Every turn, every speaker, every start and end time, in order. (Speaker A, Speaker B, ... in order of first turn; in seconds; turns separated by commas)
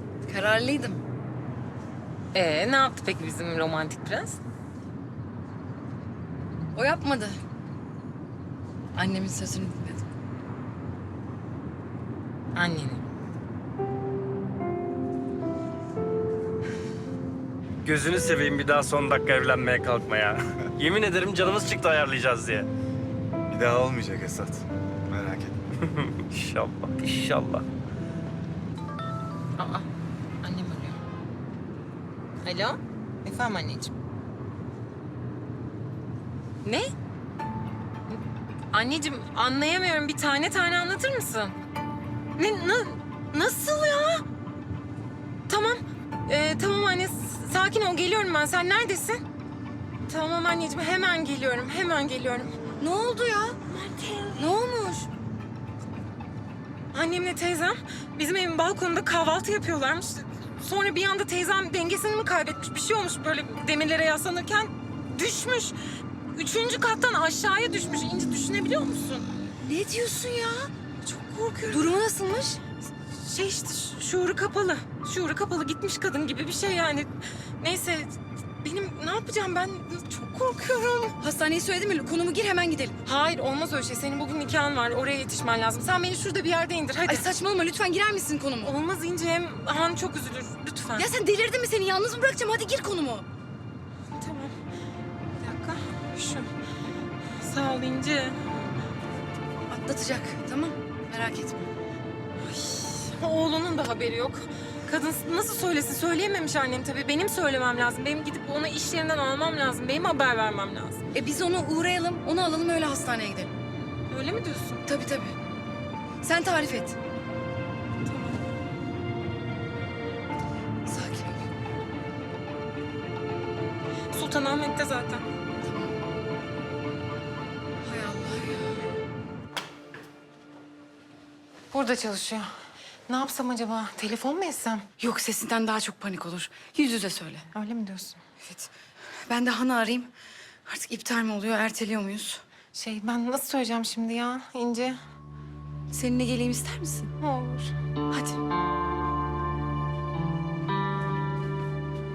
Speaker A: 0.2-1.0, Speaker B: 2.3-4.4, Speaker A: 6.7-7.4, Speaker A: 8.9-10.0, Speaker B: 12.5-13.0, Speaker C: 17.8-22.7, Speaker D: 23.5-25.6, Speaker C: 26.0-27.6, Speaker B: 29.6-29.9, Speaker B: 30.4-31.0, Speaker B: 32.4-33.9, Speaker B: 36.6-36.9, Speaker B: 38.7-41.5, Speaker B: 42.4-44.2, Speaker B: 45.5-49.2, Speaker B: 50.0-52.6, Speaker A: 52.8-53.6, Speaker B: 53.7-54.5, Speaker A: 54.4-55.1, Speaker B: 56.9-65.8, Speaker B: 66.3-69.3, Speaker A: 69.6-70.7, Speaker B: 71.0-72.6, Speaker A: 71.7-72.1, Speaker B: 73.1-81.2, Speaker A: 81.2-83.0, Speaker B: 83.0-87.3, Speaker A: 87.0-88.7, Speaker B: 88.6-91.1, Speaker A: 91.0-93.2, Speaker B: 94.1-94.5, Speaker B: 95.4-96.5, Speaker B: 97.4-98.4, Speaker A: 99.7-101.7, Speaker B: 102.5-111.0, Speaker A: 111.1-113.5, Speaker B: 114.1-114.8, Speaker A: 114.9-115.3, Speaker A: 116.2-117.0, Speaker B: 118.0-118.4, Speaker A: 120.8-121.4, Speaker B: 124.1-125.2, Speaker A: 125.6-126.0, Speaker A: 127.8-128.8, Speaker B: 131.7-134.8, Speaker A: 135.0-137.5, Speaker B: 137.5-138.2, Speaker A: 139.2-140.1, Speaker A: 140.7-142.4, Speaker B: 142.7-145.0, Speaker A: 145.9-147.1, Speaker B: 147.2-147.7, Speaker A: 148.1-148.4